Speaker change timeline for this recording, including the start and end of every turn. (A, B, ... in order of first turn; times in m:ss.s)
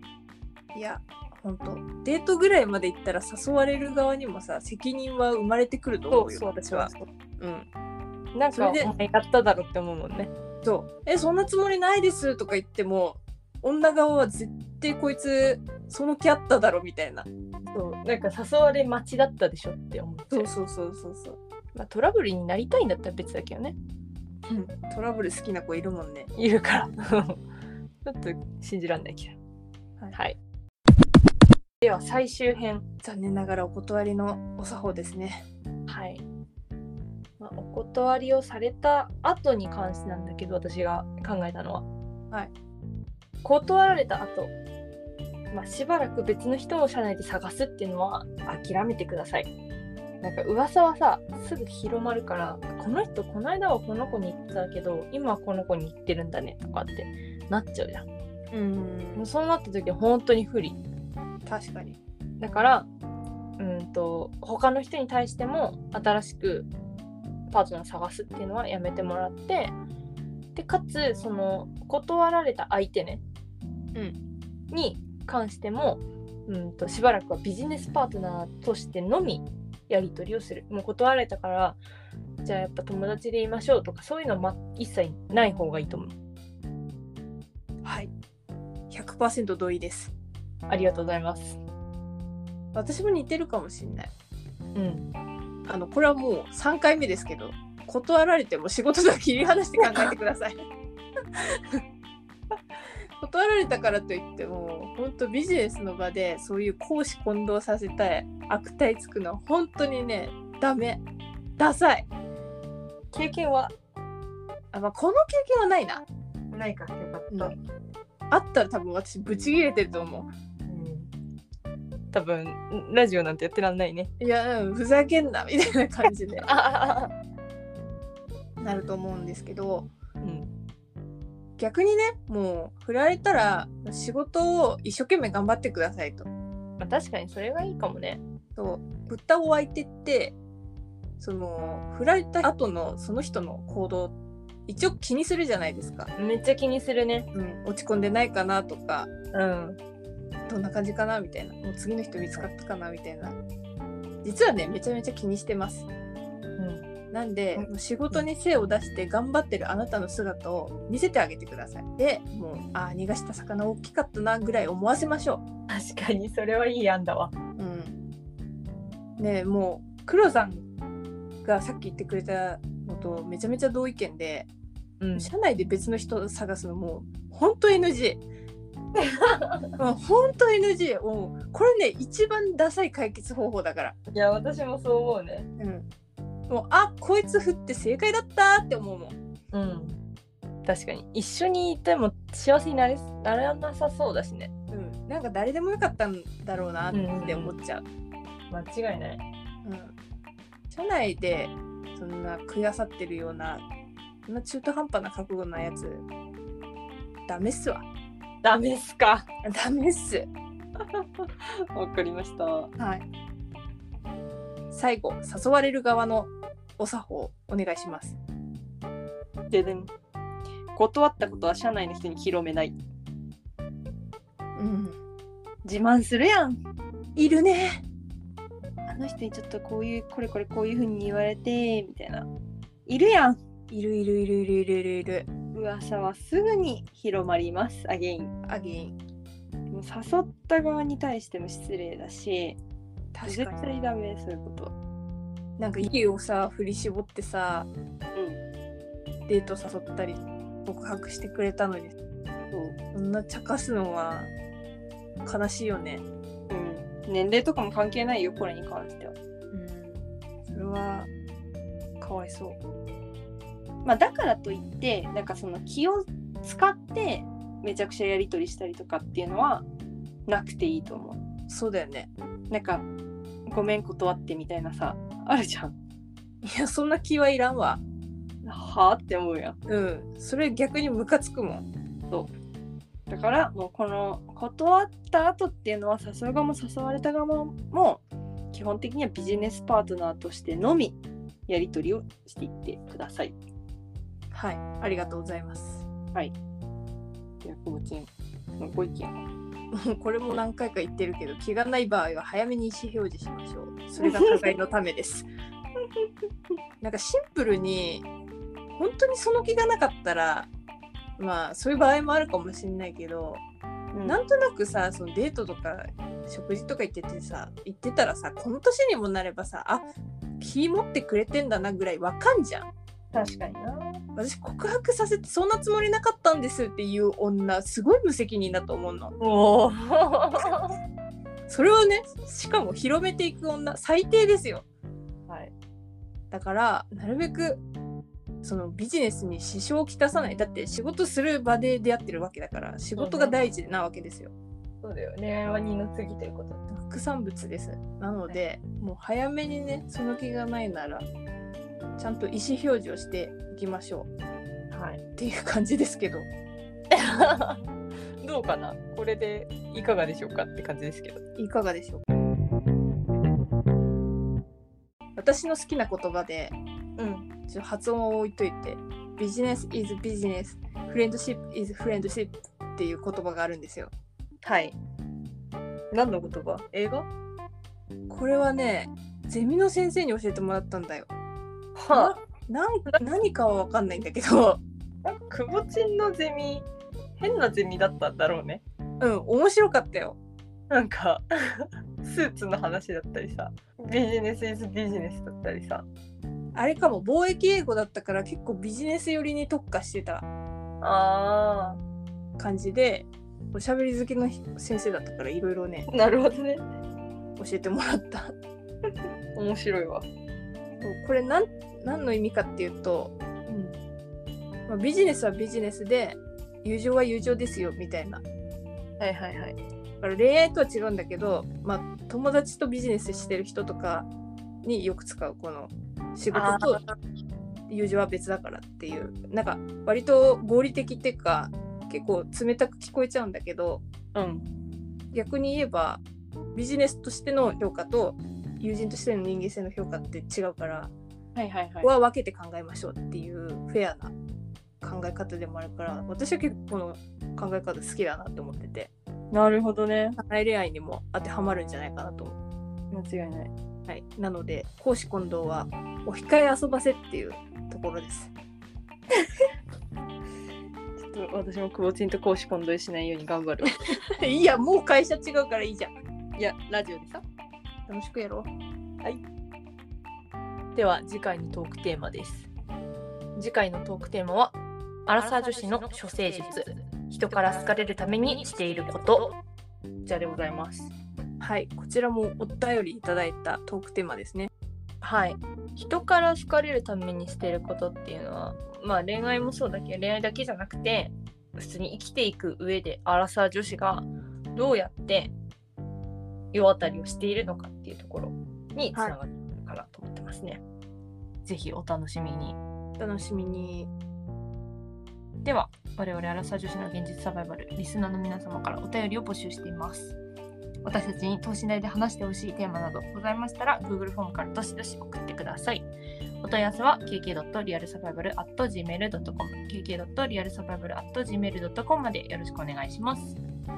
0:00.7-0:07.7 A
0:06.1-0:07.1 B
0:08.3-0:10.3 B
0:08.5-0:08.9 A
0:10.6-0:17.3 A
0:17.7-0:20.5 B
0:20.3-0:21.4 A
0:21.7-0:23.8 B
0:24.5-0:26.3 A
0:26.4-0:27.4 B
0:28.0-0:29.4 B
0:31.8-0:32.8 B
0:33.0-0:35.4 A
0:35.9-0:36.2 B
0:37.4-0:41.8 B
0:43.4-0:44.5 B
0:45.5-0:49.5 B
0:50.2-0:58.0 B
0:58.5-0:59.2 A
0:59.2-1:00.8 B
1:01.4-1:02.0 A
1:02.4-1:02.9 B
1:03.6-1:06.7 B
1:07.5-1:09.7 B
1:10.5-1:13.2 B
1:14.7-1:21.8 B
1:22.4-1:26.1 B
1:27.8-1:28.1 A
1:28.9-1:30.1 A
1:30.7-1:31.6 B
1:32.7-1:34.1 A
1:34.7-1:35.1 B
1:35.7-1:40.5 A
1:39.8-1:40.1 B
1:43.2-1:51.0 A
1:51.6-1:52.1 A
1:53.1-1:53.7 B
1:54.7-1:56.0 A
1:56.5-1:57.6 B
1:57.3-1:57.5 A
1:58.3-2:00.3 A
2:00.7-2:01.1 B
2:02.1-2:04.1 B
2:04.2-2:06.5 A
2:06.4-2:07.1 B
2:08.6-2:09.9 A
2:10.2-2:10.5 B
2:11.6-2:16.3 A
2:16.8-2:18.2 B
2:18.6-2:20.4 A
2:21.2-2:24.1 A
2:24.7-2:26.1 A
2:26.2-2:27.3 B
2:27.3-2:29.1 A
2:29.3-2:29.8 B
2:30.5-2:33.4 A
2:34.2-2:35.9 A
2:36.6-2:36.8 B
2:37.1-2:45.4 A
2:37.5-2:38.2 B
2:45.7-2:47.3 B
2:47.6-2:48.0 A
2:49.2-2:50.6 A
2:51.4-2:54.5 A
2:55.0-2:55.3 B
2:55.2-2:58.2 A
2:59.0-2:59.7 B
2:59.8-3:04.0 A
3:04.1-3:05.5 B
3:05.6-3:05.8 A
3:06.5-3:09.1 A
3:09.5-3:10.0 B
3:10.6-3:14.5 B
3:14.7-3:17.8 A
3:16.9-3:17.5 B
3:18.5-3:19.2 B
3:19.6-3:19.9 A
3:20.7-3:23.6 A
3:24.3-3:26.0 A
3:27.3-3:27.8 A
3:28.4-3:29.3 B
3:29.4-3:30.3 A
3:30.9-3:32.7 B
3:32.8-3:33.0 A
3:34.7-3:38.2 A
3:39.5-3:39.9 B
3:40.7-3:42.8 B
3:44.5-3:45.0 A
3:45.6-3:46.6 B
3:47.2-3:47.8 A
3:48.9-3:52.3 B
3:52.9-3:53.4 B
3:53.7-3:55.3 A
3:55.5-3:58.3 B
3:58.4-3:58.9 A
3:59.7-4:02.6 B
4:03.1-4:03.6 A
4:03.2-4:04.7 B
4:05.6-4:07.7 A
4:08.1-4:08.4 B
4:09.3-4:11.9 A
4:12.9-4:14.3 A
4:15.2-4:16.0 A
4:16.5-4:19.2 B
4:19.5-4:21.1 A
4:22.0-4:22.5 A
4:23.8-4:29.7 B
4:30.3-4:31.2 B
4:31.5-4:32.1 A
4:32.5-4:32.8 B
4:33.5-4:35.8 B
4:36.4-4:37.8 A
4:38.4-4:39.6 B
4:39.7-4:41.6 A
4:43.1-4:53.4 B
4:54.3-4:55.9 A
4:57.4-4:59.2 B
4:59.7-5:05.3 A
5:04.0-5:04.5 B
5:06.8-5:08.0 A
5:08.7-5:10.5 A
5:11.2-5:13.4 A
5:13.9-5:14.2 B
5:14.0-5:19.8 A
5:20.4-5:22.7 A
5:23.1-5:24.0 B
5:24.2-5:29.1 A
5:29.2-5:30.8 B
5:31.5-5:34.6 A
5:36.3-5:37.6 A
5:38.4-5:44.3 A
5:43.0-5:43.4 B
5:44.8-5:46.6 B
5:46.7-5:51.1 A
5:52.0-5:54.1 A
5:54.7-5:55.0 B
5:55.2-5:56.3 A
5:56.9-5:57.6 B
5:58.2-6:01.2 B
6:01.4-6:02.0 A
6:05.2-6:06.6 A
6:07.0-6:07.3 B
6:07.5-6:13.9 A
6:14.4-6:14.8 B
6:15.9-6:17.1 B
6:18.1-6:21.1 A
6:21.8-6:22.1 B
6:21.9-6:24.6 A
6:25.0-6:26.6 B
6:27.2-6:28.6 B
6:29.0-6:30.2 A
6:30.7-6:35.9 B
6:36.5-6:40.3 A
6:40.8-6:41.8 B
6:42.4-6:45.9 A
6:45.9-6:46.6 B
6:47.4-6:48.3 A
6:49.3-6:50.0 B
6:50.8-6:53.7 A
6:54.7-6:58.2 A
6:59.0-6:59.6 B
7:00.0-7:04.1 A
7:04.6-7:06.8 A
7:06.3-7:06.8 B
7:07.7-7:13.8 A
7:14.1-7:14.4 B
7:15.1-7:16.0 A
7:16.5-7:20.9 A
7:21.3-7:21.9 B
7:21.8-7:24.1 A
7:24.8-7:28.9 A
7:29.3-7:30.2 B
7:30.2-7:32.4 A
7:32.9-7:33.5 B
7:33.9-7:38.3 A
7:41.0-7:43.9 B
7:44.1-7:45.9 A
7:46.4-7:47.2 B
7:47.9-7:48.5 A
7:50.7-7:52.5 B
7:53.4-7:54.5 B
7:55.0-7:59.3 B
8:00.0-8:00.9 B
8:01.4-8:04.5 A
8:05.0-8:15.3 B
8:16.5-8:20.6 B
8:21.4-8:22.6 B
8:23.0-8:23.9 A
8:25.4-8:30.2 B
8:30.8-8:35.9 B
8:36.4-8:43.4 B